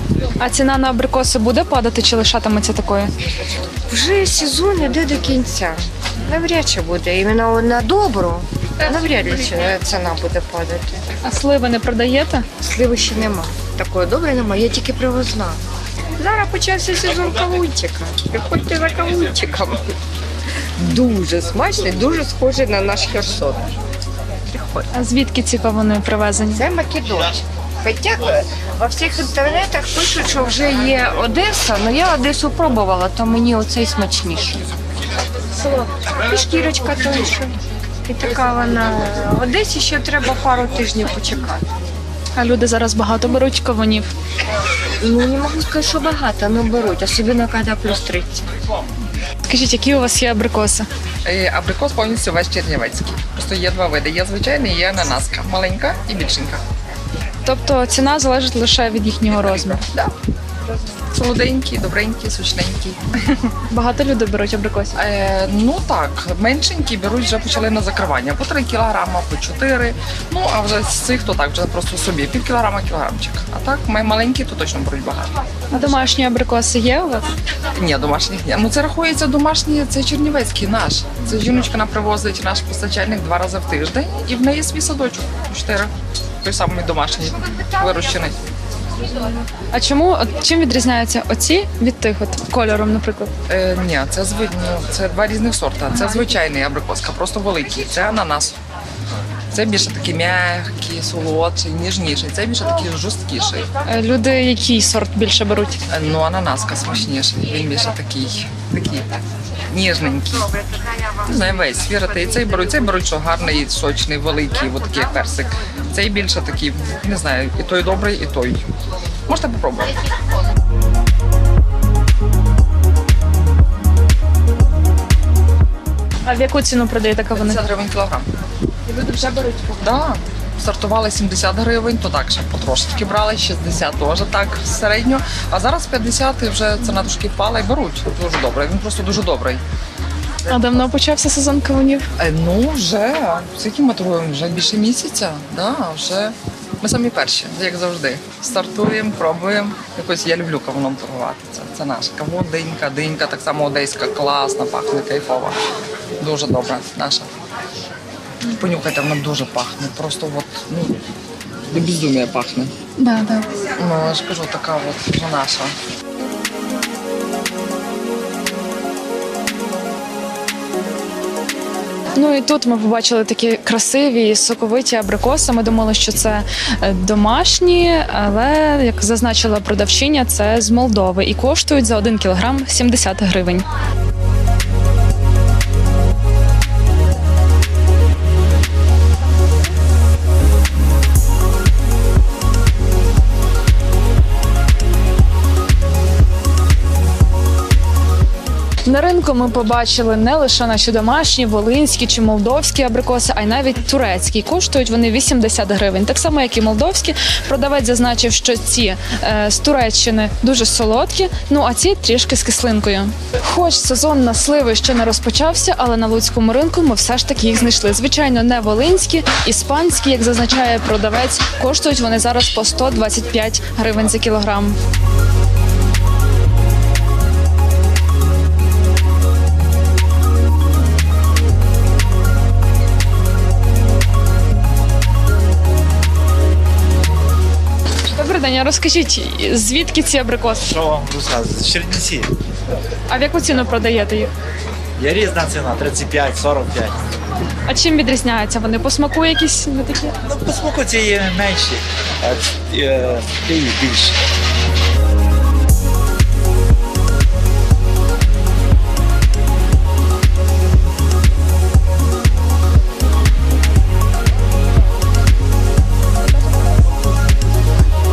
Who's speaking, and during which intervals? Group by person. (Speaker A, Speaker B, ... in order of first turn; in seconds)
Speaker A: 0.4-3.1, 11.2-12.5, 24.9-26.6, 42.4-44.1, 49.5-50.9, 57.5-59.8, 63.7-65.0, 75.7-77.3, 89.7-93.3, 103.8-105.8, 126.2-127.6, 128.9-129.8, 140.5-142.1, 163.0-163.5, 172.2-183.7, 198.8-224.8, 238.1-240.7, 243.1-244.3, 247.7-250.2
Speaker B: 3.9-11.0, 12.6-15.6, 16.2-20.0, 20.8-23.7, 24.5-24.8, 26.5-34.6, 35.6-37.5, 38.0-41.6, 45.0-48.5
Speaker C: 51.2-56.6, 59.3-60.1, 61.1-63.5, 65.0-75.3, 77.7-85.9, 86.4-88.4, 93.5-98.5, 99.5-103.7, 105.9-109.1, 109.7-110.6, 111.2-118.6, 119.3-120.0, 127.3-128.3, 129.8-139.6, 142.2-155.6, 156.2-157.3, 158.5-161.0, 161.7-162.7, 163.8-165.7
Speaker D: 240.7-242.3, 245.0-247.0, 250.3-254.2